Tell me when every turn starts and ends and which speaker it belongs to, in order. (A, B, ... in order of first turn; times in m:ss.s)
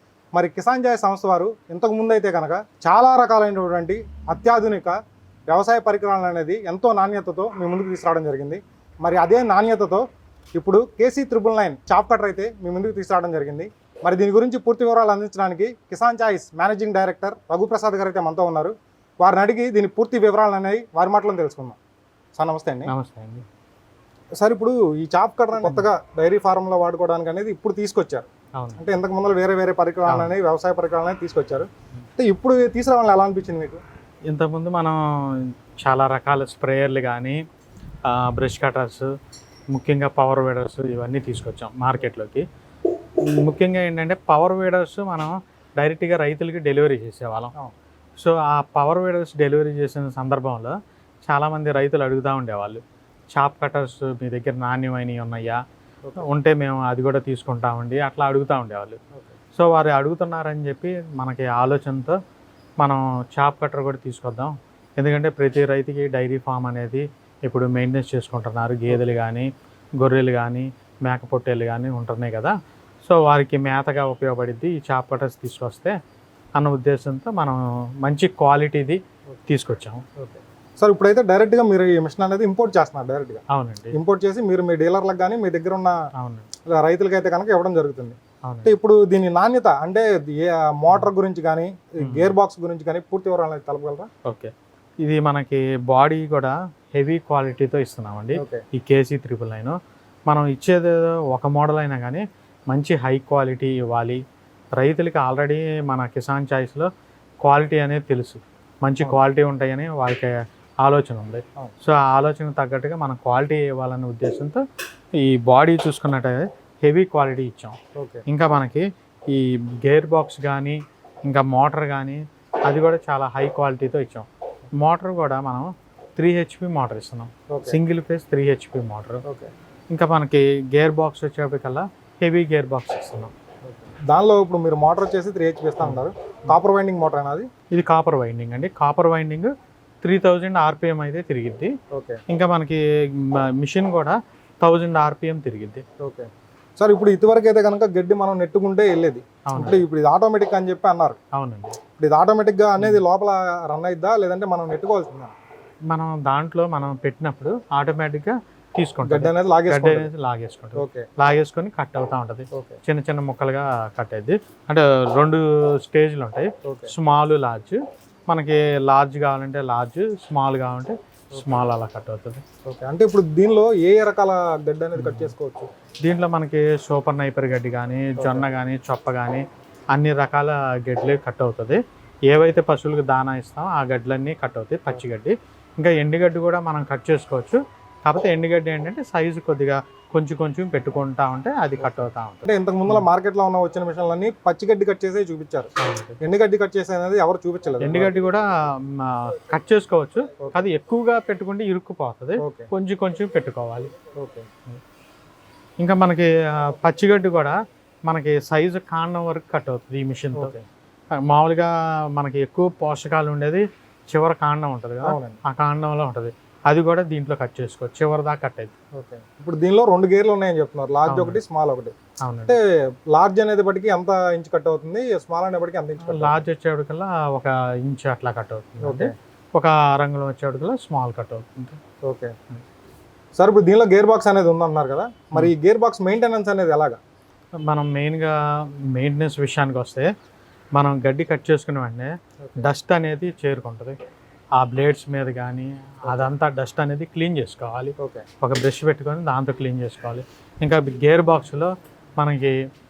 0:00.3-0:05.0 A
0:05.5-0:10.0 A
0:10.6-0:21.8 A
0:22.4-0:22.9 A
0:22.9-0:23.4 B
0:24.4-0:33.8 A
0:34.3-0:37.4 B
0:38.1-0:39.1 B
0:39.7-0:42.4 B
0:43.3-0:47.5 B
0:48.2-0:50.7 B
0:51.3-0:52.8 B
0:53.3-0:55.6 B
0:56.2-0:59.0 B
0:59.5-1:02.2 B
1:02.8-1:09.5 B
1:10.0-1:12.5 B
1:13.0-1:15.9 B
1:16.6-1:20.0 B
1:20.2-1:26.0 A
1:23.5-1:23.9 B
1:26.2-1:26.5 B
1:26.7-1:34.1 A
1:28.4-1:28.7 B
1:32.0-1:32.3 B
1:34.2-1:34.5 B
1:35.0-1:39.8 B
1:38.3-1:38.6 A
1:40.3-1:44.2 B
1:44.8-1:46.9 B
1:47.4-1:54.6 B
1:55.2-2:04.2 B
1:58.0-1:58.2 A
2:04.8-2:09.2 B
2:07.5-2:07.8 A
2:09.2-2:09.5 A
2:09.9-2:13.3 B
2:13.6-2:17.5 A
2:15.8-2:16.5 B
2:17.7-2:19.5 B
2:20.0-2:21.7 B
2:21.9-2:22.2 A
2:22.3-2:25.8 B
2:26.0-2:31.2 A
2:29.4-2:29.8 B
2:31.3-2:31.8 B
2:32.0-2:35.3 A
2:35.9-2:52.4 B
2:39.0-2:40.1 A
2:40.8-2:41.0 A
2:46.6-2:46.9 A
2:52.7-2:55.7 A
2:55.0-2:55.3 B
2:56.0-3:01.8 B
2:58.2-2:58.5 A
3:02.3-3:13.0 B
3:11.8-3:15.7 A
3:15.8-3:16.2 B
3:16.2-3:18.1 A
3:17.8-3:23.9 B
3:22.4-3:22.7 A
3:24.2-3:24.5 A
3:25.8-3:30.6 B
3:31.2-3:38.7 B
3:35.0-3:35.4 A
3:39.0-3:41.9 A
3:41.0-3:41.4 B
3:42.2-3:42.6 B
3:43.1-3:46.4 A
3:46.0-3:51.8 B
3:48.8-3:49.1 A
3:52.0-3:52.3 A
3:53.4-3:57.0 A
3:57.6-3:58.3 B
3:58.9-4:00.1 B
4:00.8-4:04.0 B
4:04.6-4:12.6 B
4:08.0-4:08.2 A